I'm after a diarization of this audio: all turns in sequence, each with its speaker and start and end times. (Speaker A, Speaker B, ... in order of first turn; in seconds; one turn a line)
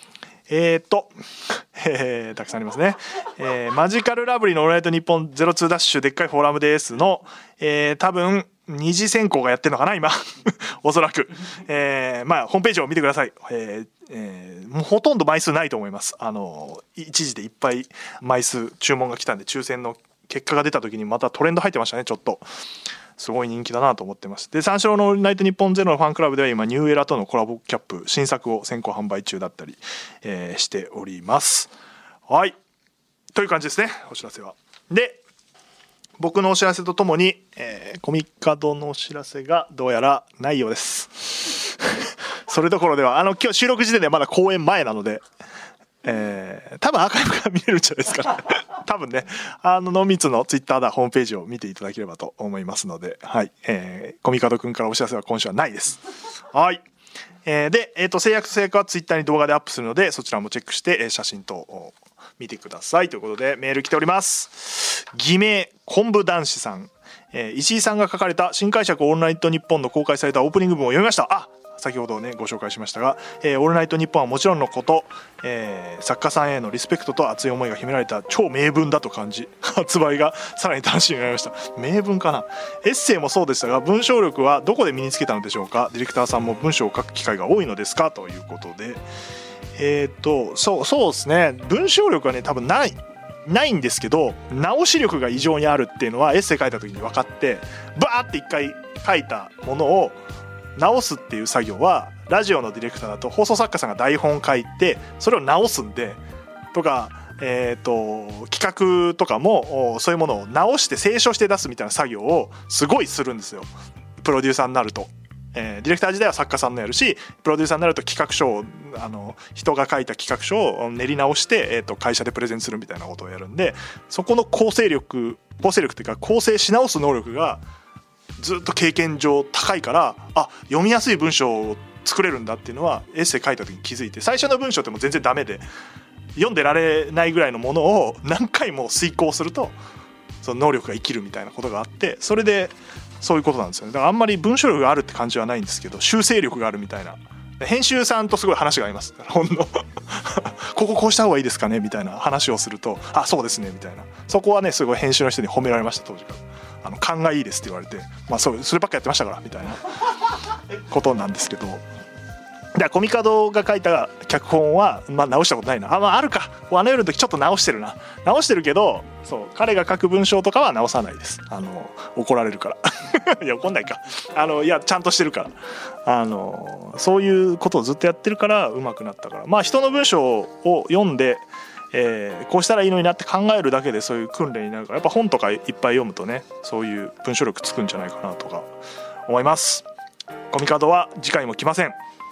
Speaker A: 0.5-22.4
Speaker A: 23.2-31.7
Speaker A: 32.3-32.5
Speaker A: 33.3-35.2
Speaker A: 36.2-45.2
Speaker A: 46.0-56.0
Speaker A: 56.5-56.8
Speaker A: 57.4-89.0
Speaker A: 89.8-100.2
Speaker A: 100.8-106.2
Speaker A: 106.7-113.7
Speaker A: 114.2-127.6
Speaker A: 128.4-135.6
Speaker A: 136.3-139.8
Speaker A: 140.4-159.8
Speaker A: 160.9-161.8
Speaker A: 162.8-175.5
Speaker A: 176.0-188.7
Speaker A: 189.3-189.8
Speaker A: 190.5-192.0